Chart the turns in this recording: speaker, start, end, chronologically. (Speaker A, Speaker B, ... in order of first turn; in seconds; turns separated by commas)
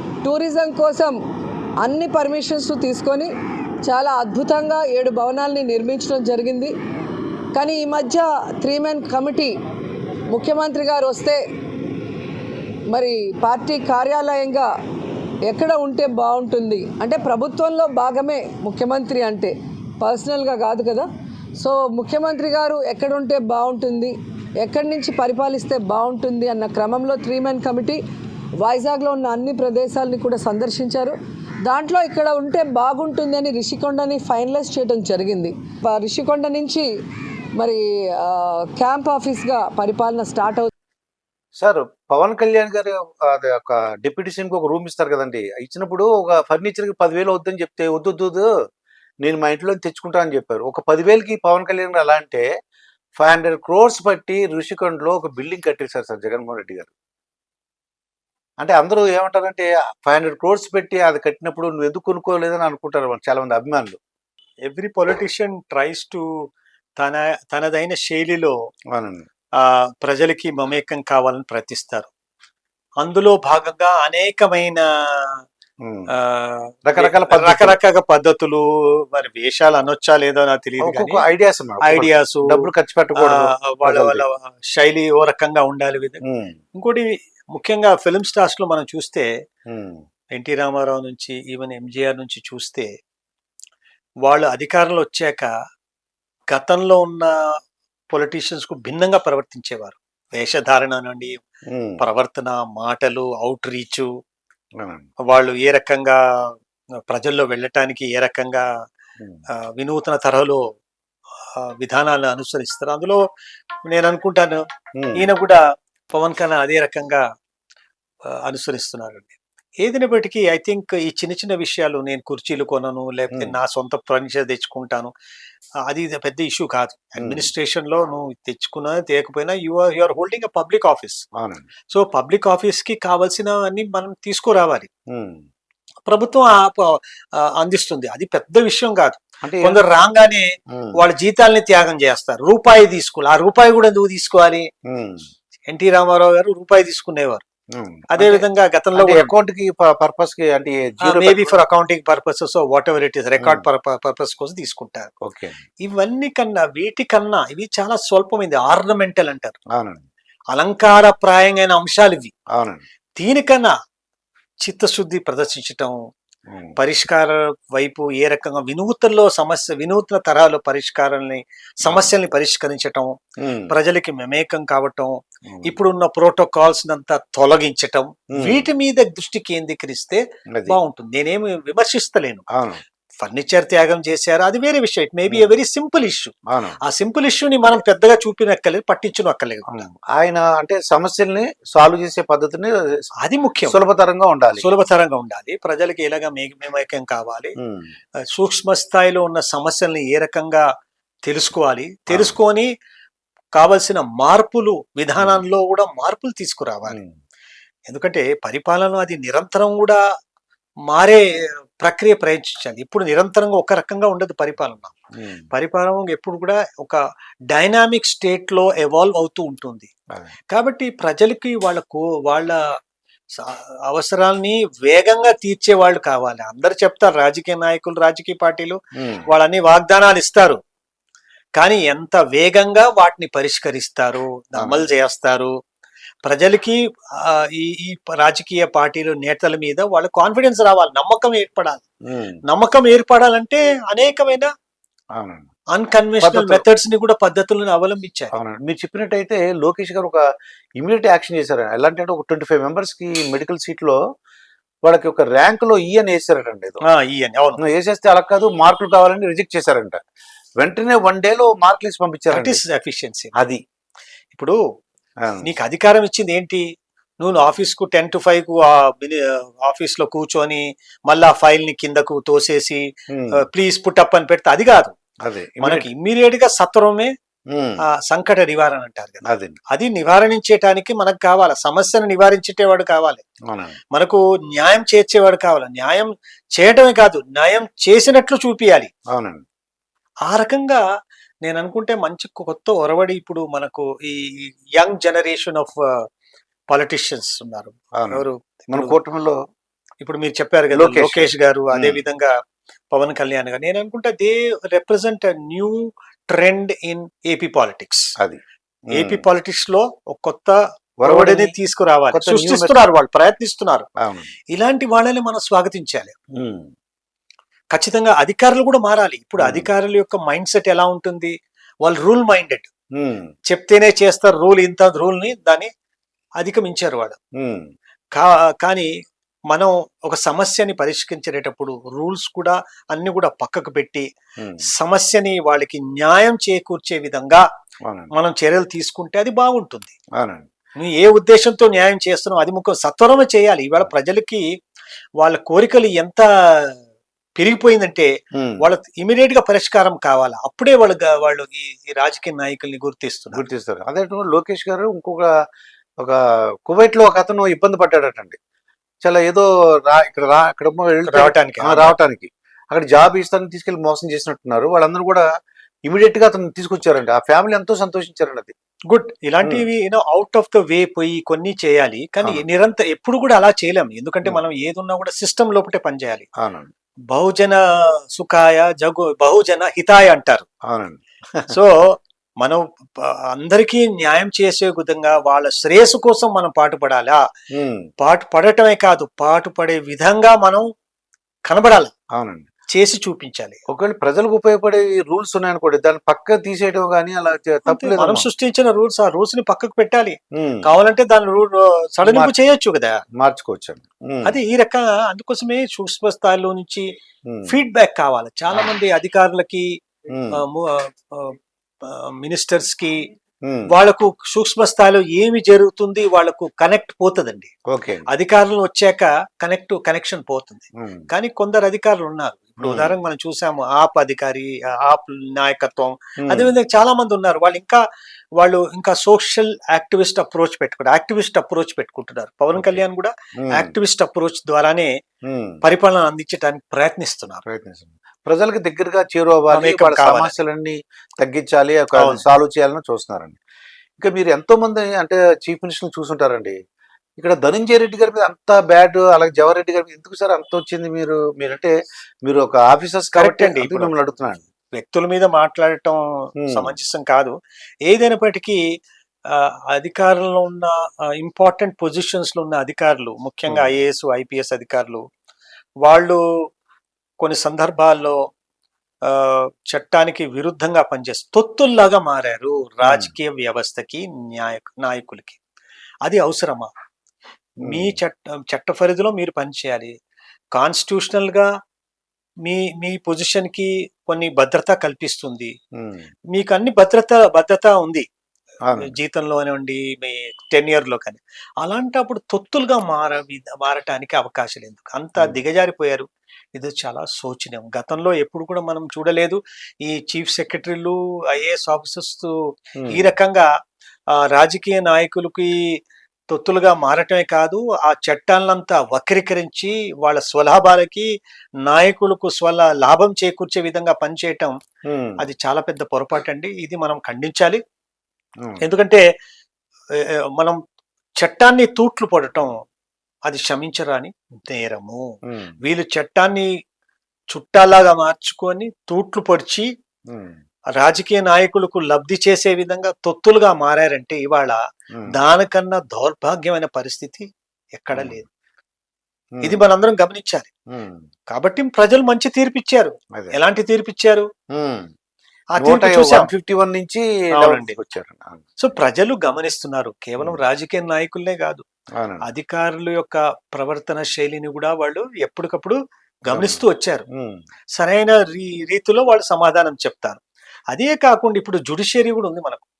Speaker A: 0.2-1.1, Speaker A: 1.8-3.3, Speaker A: 3.9-6.7, Speaker A: 7.5-9.5, Speaker A: 10.3-11.4, Speaker A: 12.9-14.7, Speaker A: 15.5-21.1, Speaker A: 21.6-28.0, Speaker A: 28.6-36.9, Speaker A: 37.6-40.7, Speaker B: 41.6-48.5, Speaker B: 49.2-52.4, Speaker B: 53.2-56.9, Speaker B: 58.6-64.0, Speaker C: 64.7-66.2, Speaker C: 67.0-68.5, Speaker B: 68.9-69.2, Speaker C: 69.6-72.1, Speaker C: 73.0-75.4, Speaker B: 75.8-76.1, Speaker C: 76.1-81.2, Speaker B: 76.8-77.8, Speaker B: 80.8-84.2, Speaker C: 81.8-82.6, Speaker C: 83.2-86.2, Speaker B: 86.2-86.6, Speaker C: 86.7-89.3, Speaker B: 89.7-90.0, Speaker C: 90.3-92.9, Speaker C: 94.2-95.5, Speaker C: 96.5-97.3, Speaker C: 98.1-101.3, Speaker B: 101.7-102.0, Speaker C: 102.0-104.1, Speaker B: 104.8-105.0, Speaker C: 105.3-106.2, Speaker C: 107.1-108.7, Speaker C: 109.5-110.6, Speaker C: 111.6-113.2, Speaker C: 113.9-114.6, Speaker B: 115.0-115.3, Speaker C: 115.1-115.6, Speaker C: 116.1-117.2, Speaker C: 118.4-125.1, Speaker C: 125.9-131.2, Speaker B: 127.2-127.5, Speaker B: 131.4-131.6, Speaker C: 131.9-134.9, Speaker B: 135.1-135.4, Speaker C: 136.1-144.7, Speaker B: 139.4-139.8, Speaker B: 140.7-140.9, Speaker B: 144.9-145.3, Speaker C: 145.7-147.4, Speaker B: 147.7-151.6, Speaker C: 148.1-149.3, Speaker C: 151.0-155.1, Speaker B: 153.4-153.6, Speaker B: 155.2-155.6, Speaker C: 155.8-159.6, Speaker B: 159.7-160.0, Speaker C: 160.5-162.3, Speaker B: 162.6-162.8, Speaker C: 163.2-163.7, Speaker C: 164.6-166.0, Speaker B: 166.5-166.8, Speaker C: 166.8-173.2, Speaker B: 171.8-172.1, Speaker B: 173.4-173.7, Speaker C: 173.7-182.4, Speaker B: 175.5-175.8, Speaker B: 178.3-178.7, Speaker B: 182.5-182.8, Speaker C: 183.2-189.8, Speaker B: 186.5-186.8, Speaker B: 189.7-193.0, Speaker C: 193.2-193.8, Speaker B: 193.7-194.7, Speaker C: 194.6-197.5, Speaker B: 197.6-197.9, Speaker C: 198.3-200.7, Speaker C: 201.3-202.7, Speaker B: 202.1-202.3, Speaker C: 203.6-207.0, Speaker B: 205.2-205.4, Speaker B: 206.8-207.2, Speaker C: 207.9-210.0, Speaker C: 210.9-211.3, Speaker C: 211.8-214.9, Speaker B: 215.2-215.5, Speaker C: 215.5-217.0, Speaker C: 217.5-219.9, Speaker C: 220.5-222.6, Speaker C: 223.4-230.6, Speaker B: 229.0-229.2, Speaker C: 231.6-235.5, Speaker B: 234.6-234.9, Speaker C: 236.2-241.8, Speaker B: 242.1-242.4, Speaker C: 242.5-244.5, Speaker B: 245.2-245.4, Speaker C: 245.7-248.3, Speaker B: 246.2-246.6, Speaker B: 248.3-250.2, Speaker B: 250.8-254.0, Speaker B: 254.8-256.8, Speaker C: 256.8-257.6, Speaker B: 257.6-260.0, Speaker B: 260.6-262.6, Speaker C: 262.3-263.3, Speaker B: 263.3-263.6, Speaker C: 265.4-266.6, Speaker C: 267.2-272.8, Speaker B: 273.1-273.4, Speaker C: 273.4-274.9, Speaker B: 275.2-275.9, Speaker C: 275.6-277.1, Speaker B: 277.5-277.8, Speaker C: 278.0-283.2, Speaker B: 279.2-279.6, Speaker B: 283.5-283.8, Speaker C: 283.9-288.9, Speaker B: 289.1-289.4, Speaker C: 290.3-290.8, Speaker C: 291.4-296.0, Speaker C: 296.7-299.0, Speaker B: 298.0-299.4, Speaker C: 300.0-302.3, Speaker B: 300.7-302.0, Speaker C: 302.9-308.1, Speaker B: 308.9-309.2, Speaker C: 308.9-313.9, Speaker B: 311.0-311.5, Speaker B: 312.1-312.8, Speaker B: 314.0-314.3, Speaker C: 314.5-316.1, Speaker B: 316.3-316.7, Speaker C: 317.7-322.7, Speaker B: 319.4-319.7, Speaker B: 323.0-323.3, Speaker C: 323.5-325.7, Speaker C: 326.4-327.2, Speaker B: 327.4-327.6, Speaker C: 328.1-328.9, Speaker C: 329.5-334.1, Speaker B: 334.4-334.6, Speaker C: 334.7-337.4, Speaker C: 338.1-339.9, Speaker B: 340.2-340.5, Speaker C: 340.8-344.4, Speaker C: 345.2-346.7, Speaker C: 347.4-348.1, Speaker B: 348.4-348.6, Speaker C: 348.6-353.4, Speaker B: 353.3-355.3, Speaker B: 356.0-358.4, Speaker B: 359.0-365.3, Speaker C: 361.1-361.9, Speaker B: 365.9-368.5, Speaker C: 368.9-376.2, Speaker B: 376.4-376.7, Speaker C: 377.1-377.6, Speaker C: 378.1-380.4, Speaker B: 380.7-381.5, Speaker C: 381.5-387.2, Speaker B: 387.5-387.9, Speaker C: 388.0-390.6, Speaker C: 391.5-391.9, Speaker B: 392.1-392.4, Speaker C: 392.7-393.6, Speaker B: 393.7-398.3, Speaker C: 397.7-403.0, Speaker B: 400.4-400.7, Speaker B: 402.0-402.3, Speaker B: 403.1-404.4, Speaker C: 404.2-406.9, Speaker B: 407.3-407.6, Speaker C: 407.5-409.8, Speaker B: 410.1-410.4, Speaker C: 410.3-413.0, Speaker B: 413.4-413.7, Speaker C: 413.7-417.5, Speaker B: 417.7-418.1, Speaker C: 418.1-427.8, Speaker B: 420.8-421.1, Speaker B: 422.6-422.9, Speaker B: 426.2-426.5, Speaker C: 428.4-434.9, Speaker B: 432.5-432.8, Speaker B: 433.4-433.7, Speaker B: 435.2-435.6, Speaker C: 435.6-437.4, Speaker B: 437.4-443.4, Speaker C: 439.5-440.4, Speaker C: 442.0-442.2, Speaker B: 444.0-446.6, Speaker B: 447.2-451.7, Speaker B: 452.2-454.4, Speaker C: 453.1-453.9, Speaker C: 454.7-457.3, Speaker B: 456.4-456.7, Speaker C: 457.9-458.6, Speaker C: 459.3-465.0, Speaker B: 463.5-463.7, Speaker C: 465.8-466.2, Speaker C: 467.2-468.1, Speaker C: 469.1-475.4, Speaker B: 472.8-473.1, Speaker C: 476.0-476.7, Speaker B: 477.6-478.0, Speaker C: 477.6-479.9, Speaker C: 480.6-481.5, Speaker C: 482.4-485.5, Speaker B: 485.8-486.1, Speaker C: 486.3-488.0, Speaker C: 488.8-502.3, Speaker B: 502.8-503.1, Speaker C: 502.9-503.5, Speaker C: 504.1-505.6, Speaker C: 506.3-511.1, Speaker C: 511.7-514.5, Speaker B: 514.9-515.2, Speaker C: 515.2-517.6, Speaker C: 518.6-519.0, Speaker C: 521.2-522.5, Speaker C: 523.2-525.0, Speaker B: 525.3-525.5, Speaker C: 525.6-526.5, Speaker C: 527.3-529.7, Speaker B: 530.1-530.4, Speaker C: 530.7-534.6, Speaker C: 535.1-538.2, Speaker B: 537.9-538.2, Speaker C: 539.4-540.5, Speaker B: 540.7-541.1, Speaker C: 541.3-544.3, Speaker B: 544.5-544.9, Speaker C: 545.5-546.3, Speaker B: 545.6-548.4, Speaker C: 547.3-547.8, Speaker C: 548.6-551.6, Speaker B: 552.0-552.2, Speaker C: 552.2-557.0, Speaker B: 556.3-556.6, Speaker B: 557.1-557.4, Speaker C: 557.8-560.2, Speaker C: 560.7-562.6